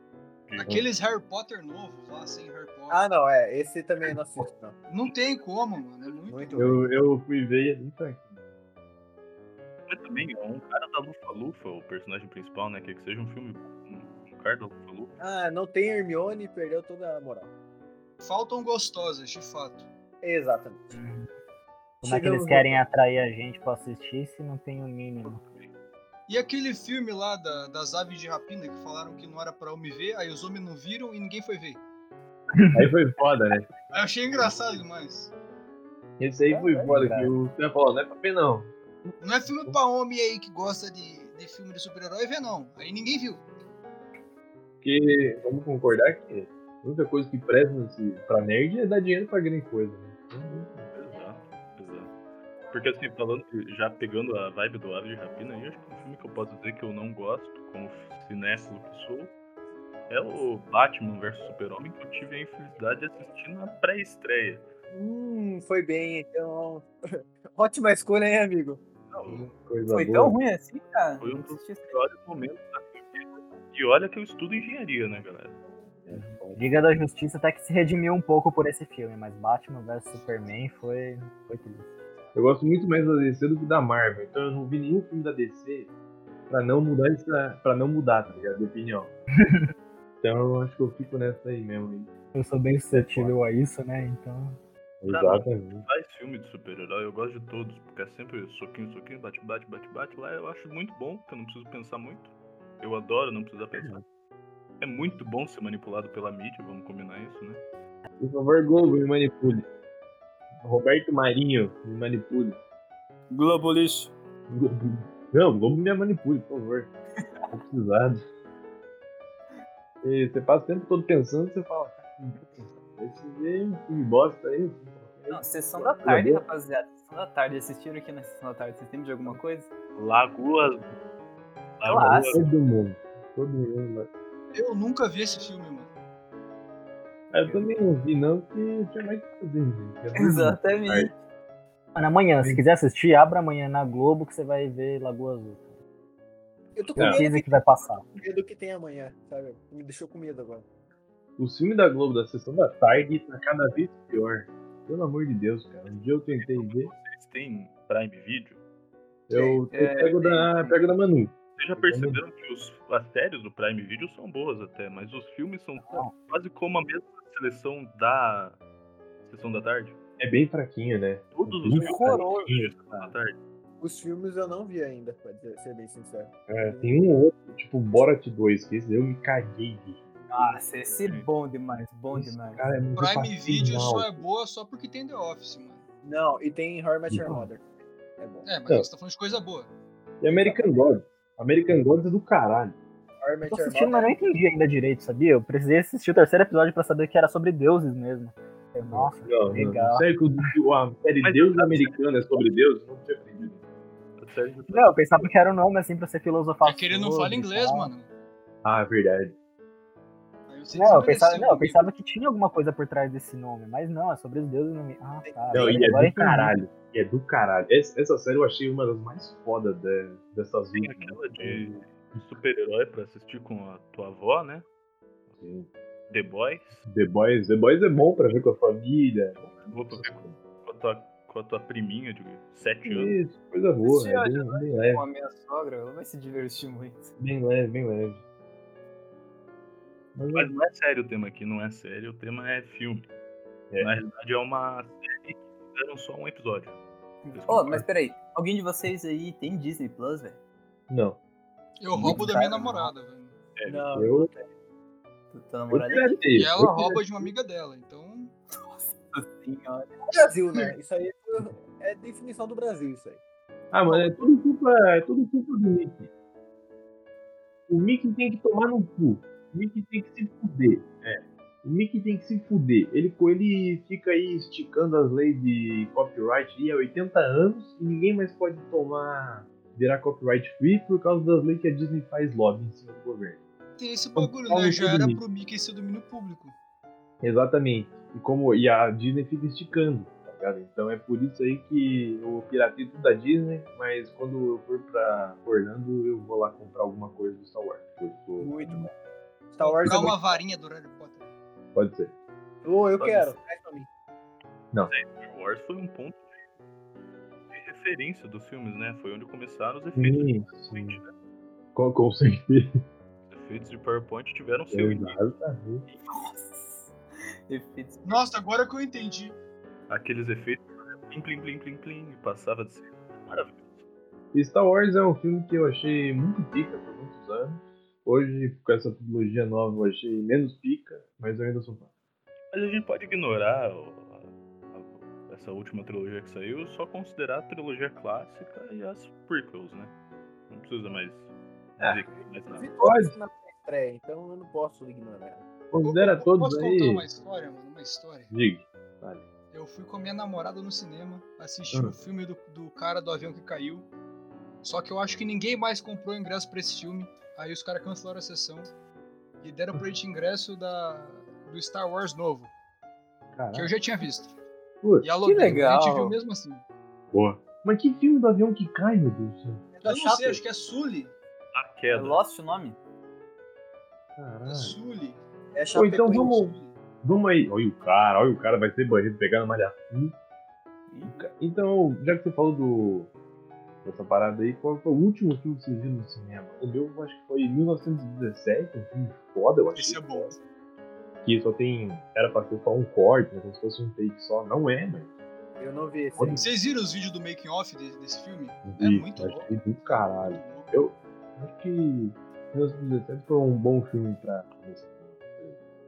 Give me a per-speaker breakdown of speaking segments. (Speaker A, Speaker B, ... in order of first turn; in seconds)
Speaker A: 0.5-0.8, 9.9-15.2, 25.3-25.7, 50.9-52.1, 52.7-59.4, 60.1-64.7, 69.1-69.5, 71.2-75.6, 95.1-104.0, 104.8-107.6, 129.9-131.0, 131.8-132.5, 156.3-158.6, 161.6-168.6, 169.2-170.0, 171.3-173.4, 201.2-202.3, 204.2-205.3, 220.8-224.7, 226.1-226.8, 229.4-233.2, 240.3-243.1, 243.8-246.8, 247.3-247.9, 253.6-253.9, 303.0-303.4, 304.9-306.4, 307.5-311.1, 313.3-315.3, 319.9-323.8, 332.5-339.9, 340.5-342.7, 371.5-372.2
Speaker B: 0.6-3.0, 4.9-6.6, 18.2-19.9, 26.3-31.8, 33.9-35.3, 39.2-43.4, 134.5-135.9, 182.9-185.8, 188.4-189.7, 206.6-208.1, 210.5-211.9, 251.8-253.4, 256.3-258.3, 283.8-286.6, 299.6-301.3, 318.0-319.4, 345.8-348.3, 349.5-353.9, 354.6-358.7, 359.4-362.5, 363.5-364.3, 365.0-366.6, 369.8-371.1, 374.5-375.2, 376.4-376.7, 389.7-390.4, 396.4-400.7
Speaker C: 2.9-4.8, 6.3-6.9, 15.2-17.5, 20.2-20.9, 22.1-22.7, 64.9-68.8, 146.8-150.7, 159.3-159.6, 173.8-176.9, 186.0-187.7, 188.2-188.5, 190.3-190.9, 193.2-194.3, 215.2-215.9, 253.7-254.5, 260.1-263.2, 263.9-264.2, 298.4-298.9, 299.5-300.4, 302.6-303.9, 342.5-345.5, 369.8-370.4, 375.5-376.5, 395.6-396.5
Speaker D: 6.6-8.4, 32.7-33.7, 36.2-39.8, 44.8-50.9, 69.3-70.4, 76.0-76.8, 82.3-85.9, 86.5-89.1, 90.2-92.1, 92.9-93.4, 95.0-95.9, 108.2-109.7, 110.6-112.6, 114.5-116.9, 117.5-118.2, 120.0-126.5, 132.3-134.1, 137.3-141.1, 147.0-147.2, 151.4-156.9, 159.3-162.2, 170.2-173.1, 176.5-180.2, 182.1-184.2, 187.1-187.5, 190.2-192.8, 198.9-203.6, 208.6-209.3, 215.5-221.8, 225.4-225.7, 226.9-229.4, 229.9-230.3, 232.8-235.0, 237.2-238.2, 240.2-240.5, 250.9-251.2, 251.9-252.3, 253.9-254.3, 255.7-257.3, 263.7-266.1, 267.7-283.4, 284.1-285.2, 287.2-298.9, 299.9-300.1, 301.8-302.1, 309.9-311.0, 311.8-312.8, 314.7-315.9, 324.3-331.9, 342.8-343.2, 345.7-347.1, 348.3-349.3, 363.4-363.8, 364.8-365.7, 367.1-369.7, 374.2-374.8, 375.7-380.1, 381.1-383.1, 383.8-390.3, 391.2-395.1, 396.2-396.5, 398.6-405.6
Speaker E: 20.9-21.3, 22.0-25.4, 32.5-32.9, 36.5-37.3, 76.1-81.9, 89.4-89.7, 92.3-94.6, 141.9-145.8, 147.0-148.1, 165.8-166.1, 193.5-200.1, 204.7-207.9, 210.7-216.6
Speaker F: 69.9-72.0, 113.3-114.1, 117.2-117.5, 125.3-129.7, 131.9-132.3, 140.2-141.2, 159.7-160.8, 171.8-172.6, 180.3-182.8, 233.8-237.1, 247.2-250.4, 255.3-256.3, 258.6-260.0, 315.9-316.9, 317.5-318.2, 365.2-366.2, 371.9-372.8, 380.9-381.3